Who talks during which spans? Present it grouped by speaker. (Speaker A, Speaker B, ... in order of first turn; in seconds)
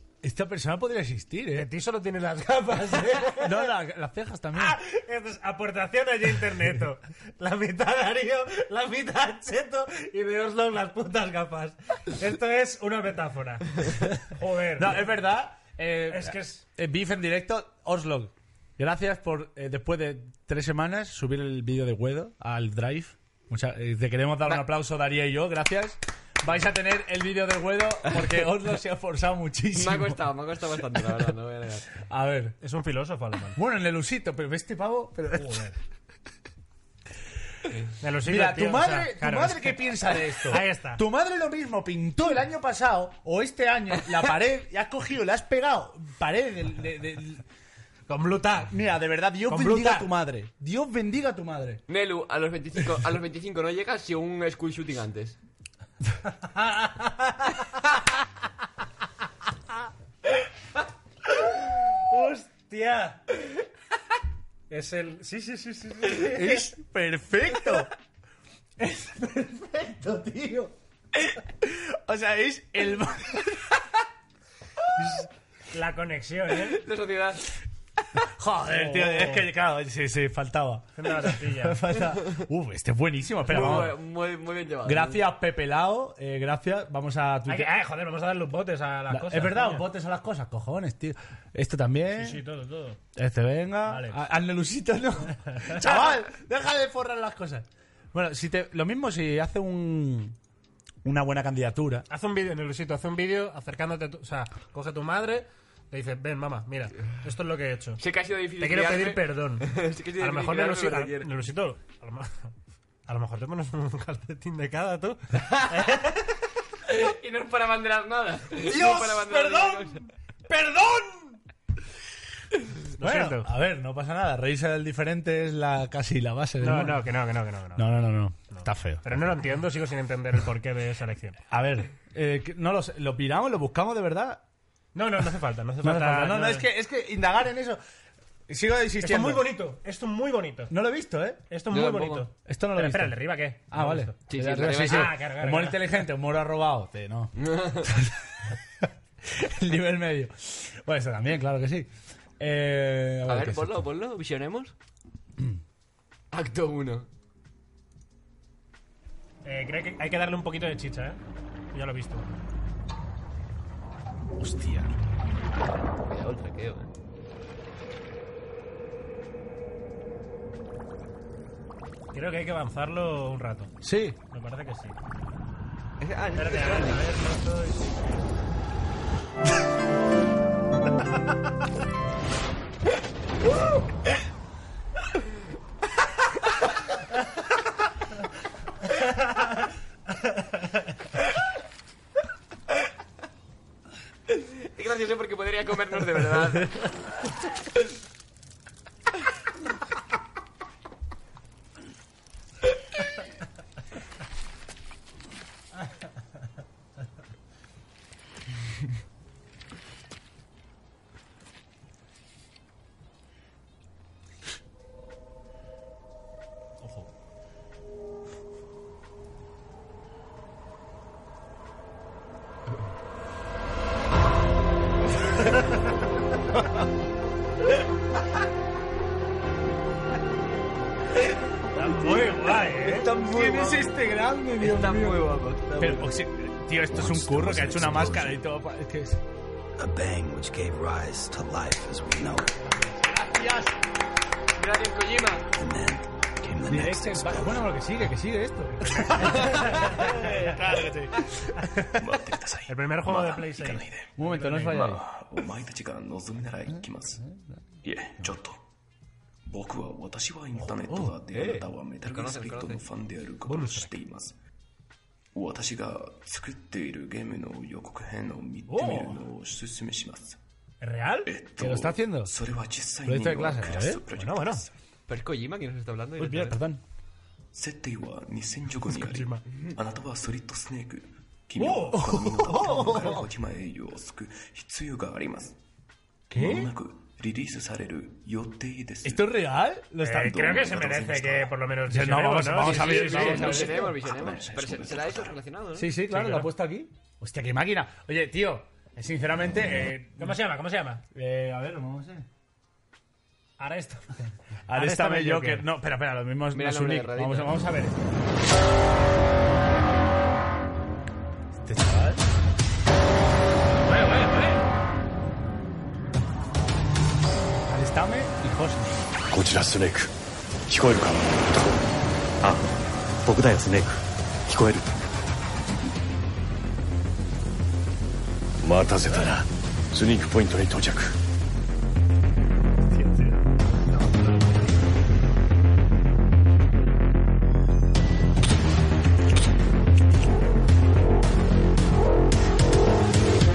Speaker A: 0.2-1.7, 3.4-4.8, 14.8-30.2, 32.1-32.5, 33.5-35.7, 38.2-47.4, 48.7-51.8, 66.2-67.9, 70.0-70.4, 71.6-73.6, 78.2-84.0, 84.8-87.7, 89.1-92.4, 93.1-100.4, 101.0-102.1, 118.7-119.9, 123.0-127.1, 127.8-129.3, 131.5-134.4, 135.8-137.8, 138.5-139.6, 140.7-141.4, 142.5-148.5, 149.2-153.9, 164.4-164.9, 173.8-174.2, 232.5-235.2, 235.7-239.2, 243.1-243.7, 246.7-251.9, 254.2-255.0, 256.7-257.6, 260.6-261.6, 271.6-272.3, 273.0-274.0, 276.2-276.8, 281.9-283.2, 286.3-286.7, 289.0-290.5, 291.9-293.9, 295.7-300.4, 301.1-302.2, 304.7-308.0, 311.6-312.3, 317.7-319.1
Speaker B: 1.5-3.7, 4.5-15.1, 16.1-16.6, 32.6-33.6, 38.0-41.0, 48.1-48.7, 49.5-50.1, 56.8-57.1, 61.7-63.2, 64.7-66.6, 69.0-70.7, 75.7-76.8, 78.7-79.5, 81.0-81.8, 87.5-89.9, 92.1-93.0, 93.9-94.2, 95.4-96.2, 102.1-108.0, 108.6-112.5, 113.1-116.2, 120.5-121.3, 123.0-123.5, 126.6-128.0, 128.5-131.4, 134.9-136.7, 139.0-140.7, 141.5-144.1, 144.8-146.0, 159.4-161.2, 161.7-162.3, 172.1-173.7, 174.3-174.9, 176.3-178.0, 231.7-233.1, 248.8-250.4, 252.7-254.9, 263.4-263.9, 268.7-269.2, 270.8-271.3, 274.2-274.6, 278.9-279.4, 281.6-282.9, 290.0-293.9, 296.1-296.5, 300.2-301.0, 303.6-304.0, 304.7-305.7, 313.9-314.6, 332.9-334.6
Speaker C: 29.7-31.9, 51.9-55.4, 76.7-77.5, 83.5-85.2, 108.0-111.3, 116.9-120.0, 141.7-142.3, 144.3-145.1, 147.4-147.9, 153.3-154.7, 156.3-157.1, 166.1-166.9, 176.0-177.0, 194.3-196.9, 233.2-233.8, 234.6-236.0, 244.6-245.5, 262.0-262.8, 275.1-276.6, 292.6-295.9, 306.5-307.6
Speaker D: 236.9-238.3, 239.8-242.5, 245.6-247.7
Speaker E: 251.9-257.2, 257.8-258.6, 259.4-264.3, 265.3-270.4, 271.3-274.7, 277.5-285.6, 286.3-289.4, 290.3-291.6, 293.1-295.4
Speaker F: 319.3-320.1, 320.7-321.8, 322.4-324.9, 328.6-331.2